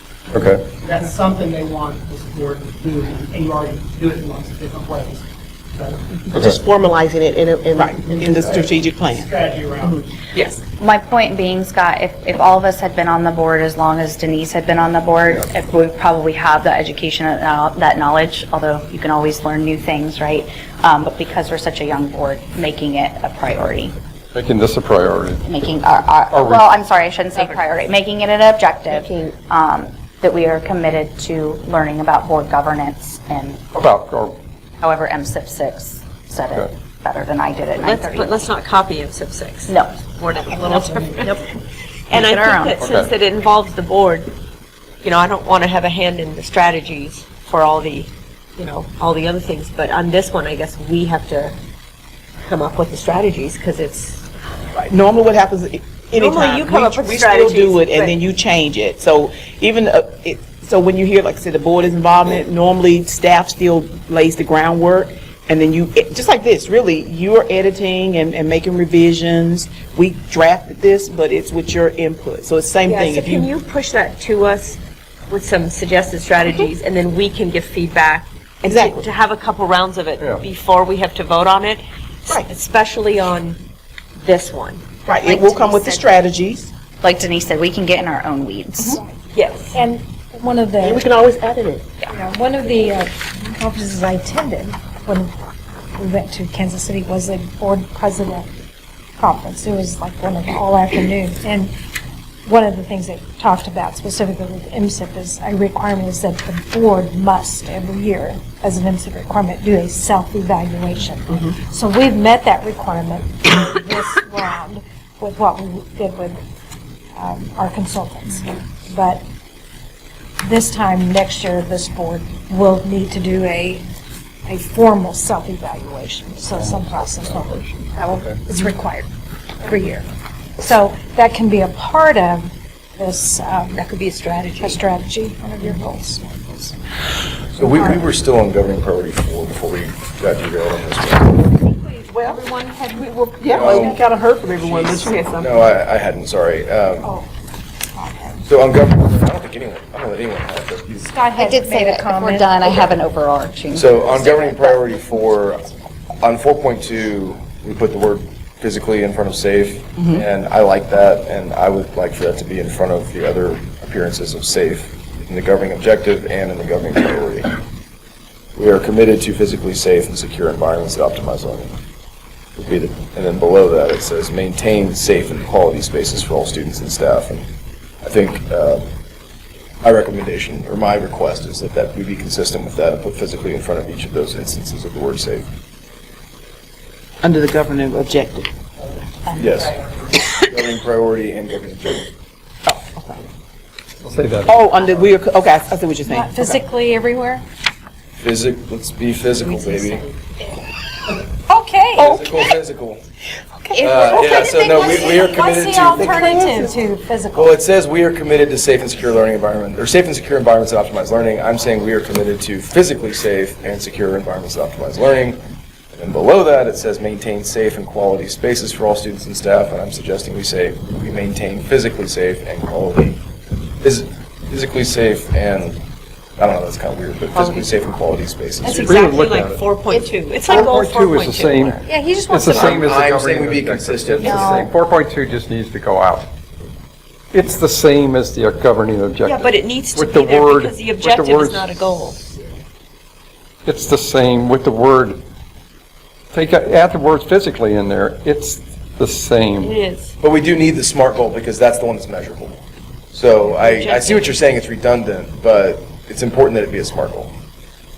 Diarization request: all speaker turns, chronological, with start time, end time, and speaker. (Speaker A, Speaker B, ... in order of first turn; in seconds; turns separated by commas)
Speaker A: 0.3-0.6, Speaker B: 0.8-6.5, Speaker C: 6.5-8.1, Speaker D: 7.7-9.3, Speaker B: 8.0-10.0, Speaker E: 10.3-10.6, Speaker F: 10.8-23.9, Speaker A: 24.3-25.5, Speaker F: 25.4-33.6, Speaker A: 26.3-26.7, Speaker A: 33.7-34.4, Speaker F: 34.8-38.4, Speaker E: 37.8-41.5, Speaker F: 39.7-40.0, Speaker B: 40.6-41.3, Speaker E: 42.1-44.3, Speaker F: 42.1-42.8, Speaker A: 42.7-43.1, Speaker E: 45.0-51.5, Speaker E: 52.5-54.2, Speaker D: 54.7-73.5, Speaker E: 56.1-58.1, Speaker E: 72.8-74.8, Speaker E: 75.3-83.6, Speaker D: 78.6-79.0, Speaker E: 84.2-84.8, Speaker D: 85.0-86.7, Speaker F: 85.2-86.1, Speaker F: 87.0-89.0, Speaker E: 89.3-89.8, Speaker G: 89.7-91.1, Speaker C: 90.8-91.8, Speaker G: 92.1-95.3, Speaker G: 96.0-98.5, Speaker G: 99.2-101.7, Speaker G: 102.4-116.4, Speaker G: 117.2-119.2, Speaker G: 120.4-123.8, Speaker G: 124.5-129.1, Speaker A: 126.6-128.4, Speaker G: 129.6-130.1, Speaker G: 130.6-133.8, Speaker E: 133.7-134.8, Speaker G: 134.6-137.0, Speaker H: 137.5-141.5, Speaker G: 137.6-138.0, Speaker D: 142.2-142.4, Speaker D: 143.3-145.1, Speaker C: 143.5-143.9, Speaker H: 143.5-144.1, Speaker H: 144.6-147.1, Speaker E: 144.9-145.5, Speaker G: 147.0-147.3, Speaker G: 147.9-148.4, Speaker H: 148.4-151.1, Speaker G: 151.0-153.0, Speaker F: 151.3-154.8, Speaker H: 153.7-167.5, Speaker H: 168.6-171.7, Speaker H: 172.6-177.4, Speaker H: 178.0-178.9, Speaker H: 179.8-185.5, Speaker D: 187.2-188.5, Speaker H: 189.3-189.8, Speaker H: 190.3-192.1, Speaker D: 192.7-193.2, Speaker A: 194.0-194.6, Speaker D: 194.4-196.6, Speaker G: 196.0-197.4, Speaker H: 198.2-200.1, Speaker B: 199.4-200.0, Speaker G: 201.3-202.1, Speaker H: 201.9-203.0, Speaker D: 202.0-202.3, Speaker D: 203.6-205.2, Speaker G: 203.7-207.5, Speaker H: 203.8-206.3, Speaker D: 205.8-206.8, Speaker H: 207.3-215.4, Speaker H: 215.9-223.2, Speaker H: 223.8-225.8, Speaker H: 226.4-229.0, Speaker E: 227.3-227.7, Speaker E: 228.6-231.8, Speaker A: 228.7-229.6, Speaker A: 230.5-236.3, Speaker G: 231.8-232.8, Speaker H: 232.4-234.6, Speaker F: 234.2-234.7, Speaker A: 237.3-242.1, Speaker E: 239.2-242.2, Speaker A: 243.6-245.2, Speaker A: 246.3-249.8, Speaker E: 249.6-250.1, Speaker H: 250.2-257.3, Speaker E: 253.4-254.3